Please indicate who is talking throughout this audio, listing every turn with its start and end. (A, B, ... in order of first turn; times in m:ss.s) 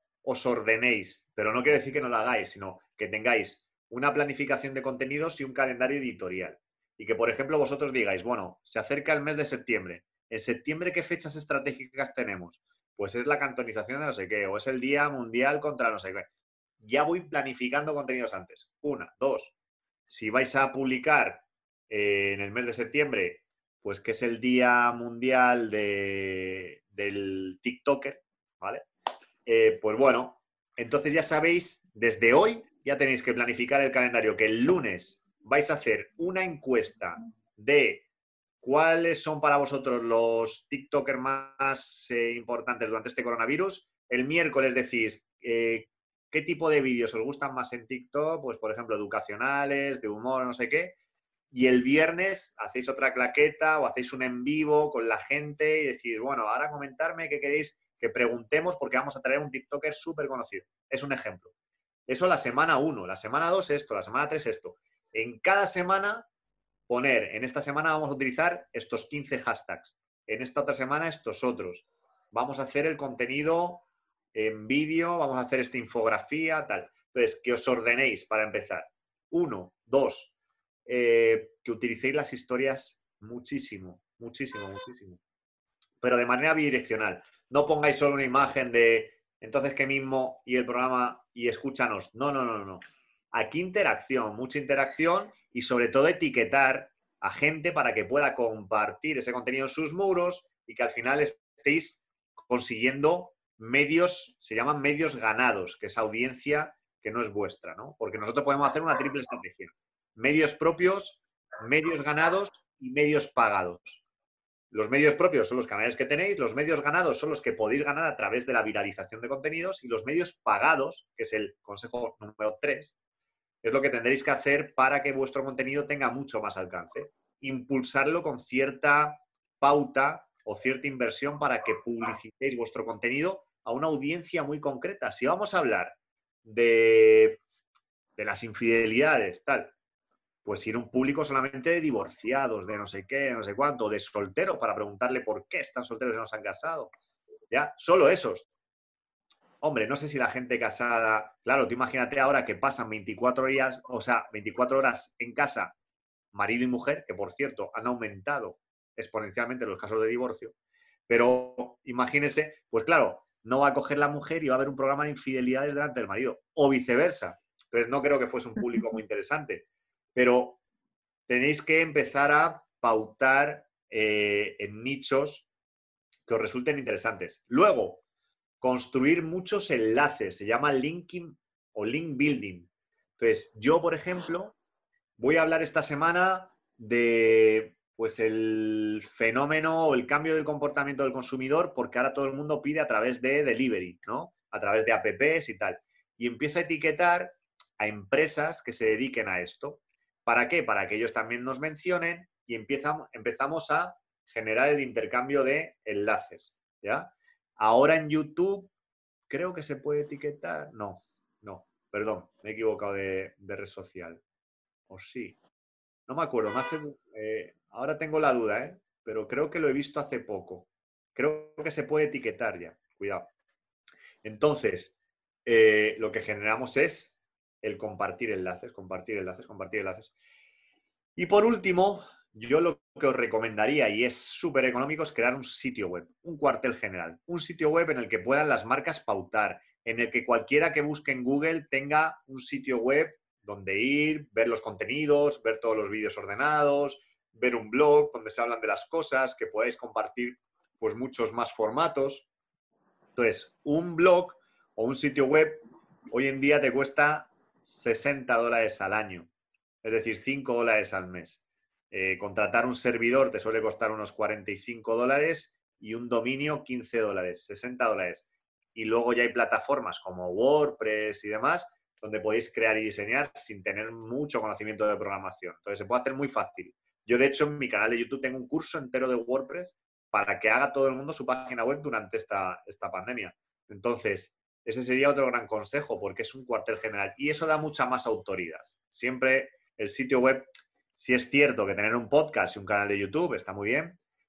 0:00.2-0:16.3 A
0:16.8-0:19.5 A
0:20.1-0:28.8 A
0:29.4-0:38.0 A
0:38.6-0:50.9 A
0:51.5-1:01.5 A
1:02.1-1:06.3 A
1:06.9-1:20.3 A
1:20.8-1:25.2 A
1:26.0-1:54.0 A
1:54.7-2:02.9 A
2:03.6-2:17.4 A
2:18.2-2:19.7 A
2:20.4-2:26.9 A
2:27.5-2:28.4 A
2:29.6-2:35.7 A
2:36.3-2:40.5 A
2:41.1-2:50.6 A
2:51.3-2:55.5 A
2:56.2-2:58.0 A
2:58.6-3:04.6 A
3:05.2-3:28.7 A
3:29.3-3:34.2 A
3:34.9-3:35.4 A
3:36.1-3:43.3 A
3:44.2-3:44.9 A
3:45.4-3:50.1 A
3:51.2-4:12.3 A
4:13.2-4:19.3 A
4:19.8-4:54.0 A